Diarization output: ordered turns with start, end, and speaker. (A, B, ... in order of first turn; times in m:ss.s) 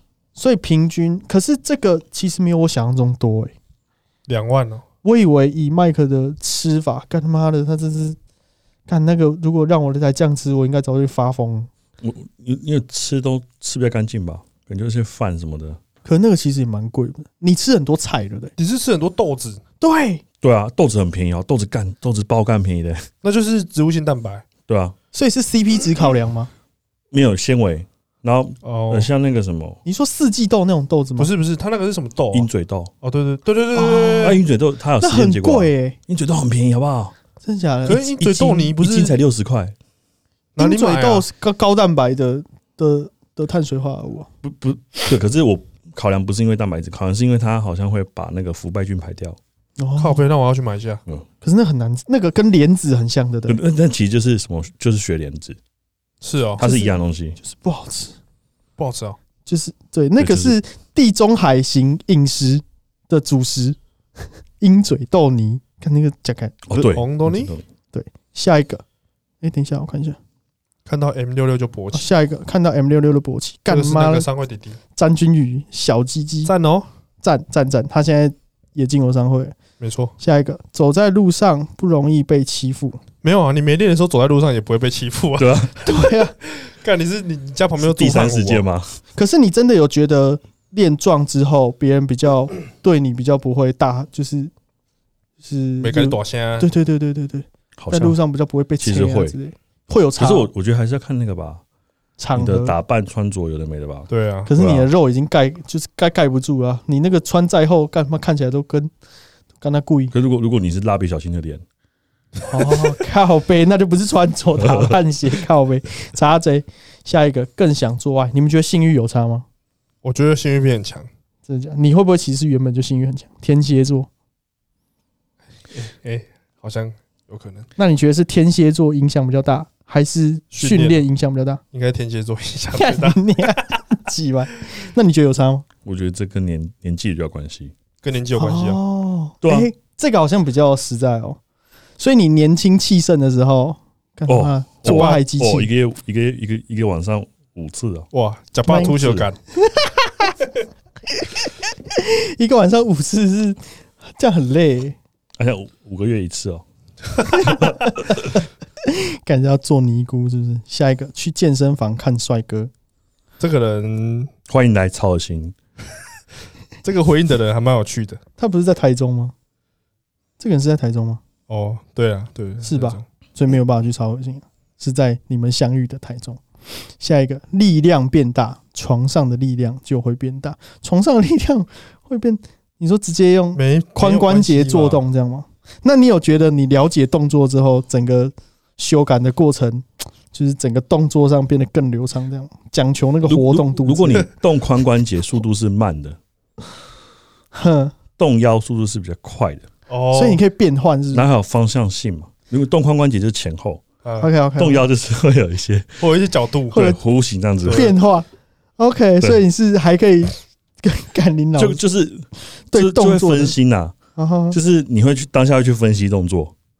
0:00.4-0:03.5 A
0:04.3-0:04.8 B
0:05.0-0:08.2 A
0:08.9-0:11.7 A
0:12.0-0:15.8 C
0:16.0-0:18.5 A
0:18.6-0:19.6 B
0:19.8-0:20.2 A
0:20.4-0:23.1 C
0:23.2-0:24.4 B
0:24.7-0:25.0 C
0:25.1-0:26.5 A
0:27.1-0:29.8 C
0:28.6-0:29.1 B
0:29.9-0:31.3 A
0:31.2-0:32.5 B
0:32.3-0:32.9 C
0:33.0-0:34.4 B
0:33.8-0:34.4 A
0:34.2-0:37.1 C
0:35.0-0:36.0 A
0:37.4-0:38.7 A
0:37.9-0:39.2 B
0:38.3-0:39.8 C
0:40.6-0:41.2 B
0:40.6-0:44.3 A
0:44.4-0:49.4 C
0:49.8-0:50.2 A
0:50.0-0:51.0 B
0:51.4-0:53.6 A
0:53.5-0:55.6 C
0:56.2-0:56.6 B
0:56.6-0:57.4 C
0:56.6-0:58.1 A
0:58.8-0:59.2 B
0:59.5-1:03.8 A
1:00.2-1:00.6 C
1:04.6-1:07.0 A
1:06.7-1:07.6 C
1:06.8-1:07.5 B
1:07.9-1:08.8 A
1:09.4-1:10.2 A
1:10.9-1:12.1 B
1:11.9-1:14.3 A
1:13.7-1:14.8 B
1:15.0-1:16.5 A
1:16.4-1:16.9 B
1:17.2-1:19.5 A
1:19.8-1:20.1 B
1:20.2-1:23.0 A
1:23.2-1:28.6 B
1:25.4-1:25.9 C
1:25.8-1:26.4 A
1:27.8-1:29.0 C
1:29.1-1:34.5 A
1:35.4-1:40.5 A
1:35.8-1:36.7 B
1:37.8-1:38.2 C
1:38.8-1:39.4 C
1:40.2-1:41.6 C
1:42.2-1:42.8 A
1:42.3-1:44.9 C
1:44.1-1:44.5 B
1:44.5-1:48.9 A
1:49.6-1:50.1 A
1:50.1-1:51.6 C
1:52.5-1:59.4 A
1:54.6-1:55.0 C
2:00.0-2:01.1 B
2:01.5-2:04.1 A
2:05.7-2:07.7 B
2:07.8-2:11.6 A
2:10.5-2:11.0 B
2:11.7-2:13.8 B
2:12.8-2:15.6 A
2:15.8-2:17.7 C
2:18.0-2:18.8 B
2:18.4-2:21.4 A
2:19.4-2:19.7 C
2:22.0-2:25.7 A
2:24.3-2:28.1 C
2:28.1-2:29.4 B
2:28.7-2:29.0 A
2:28.7-2:29.3 C
2:29.6-2:30.3 A
2:31.2-2:35.0 A
2:35.4-2:36.6 C
2:37.2-2:38.2 C
2:37.4-2:38.2 A
2:38.8-2:42.7 A
2:43.4-2:44.3 B
2:44.5-2:45.5 C
2:46.8-2:48.2 B
2:48.4-2:49.3 A
2:50.4-2:51.2 A
2:51.5-2:53.0 B
2:52.6-2:56.4 A
2:57.0-3:14.3 A
3:03.5-3:05.0 B
3:13.2-3:16.2 C
3:17.5-3:18.0 A
3:18.2-3:19.6 C
3:19.9-3:20.4 B
3:20.1-3:21.3 A
3:21.1-3:23.8 C
3:24.0-3:24.3 B
3:24.2-3:24.8 A
3:24.6-3:26.0 C
3:26.0-3:26.8 B
3:26.7-3:28.0 C
3:26.7-3:27.0 A
3:27.6-3:27.9 B
3:27.7-3:28.3 A
3:28.8-3:31.8 A
3:31.6-3:34.0 C
3:32.7-3:33.6 A
3:34.2-3:34.6 A
3:34.5-3:36.5 C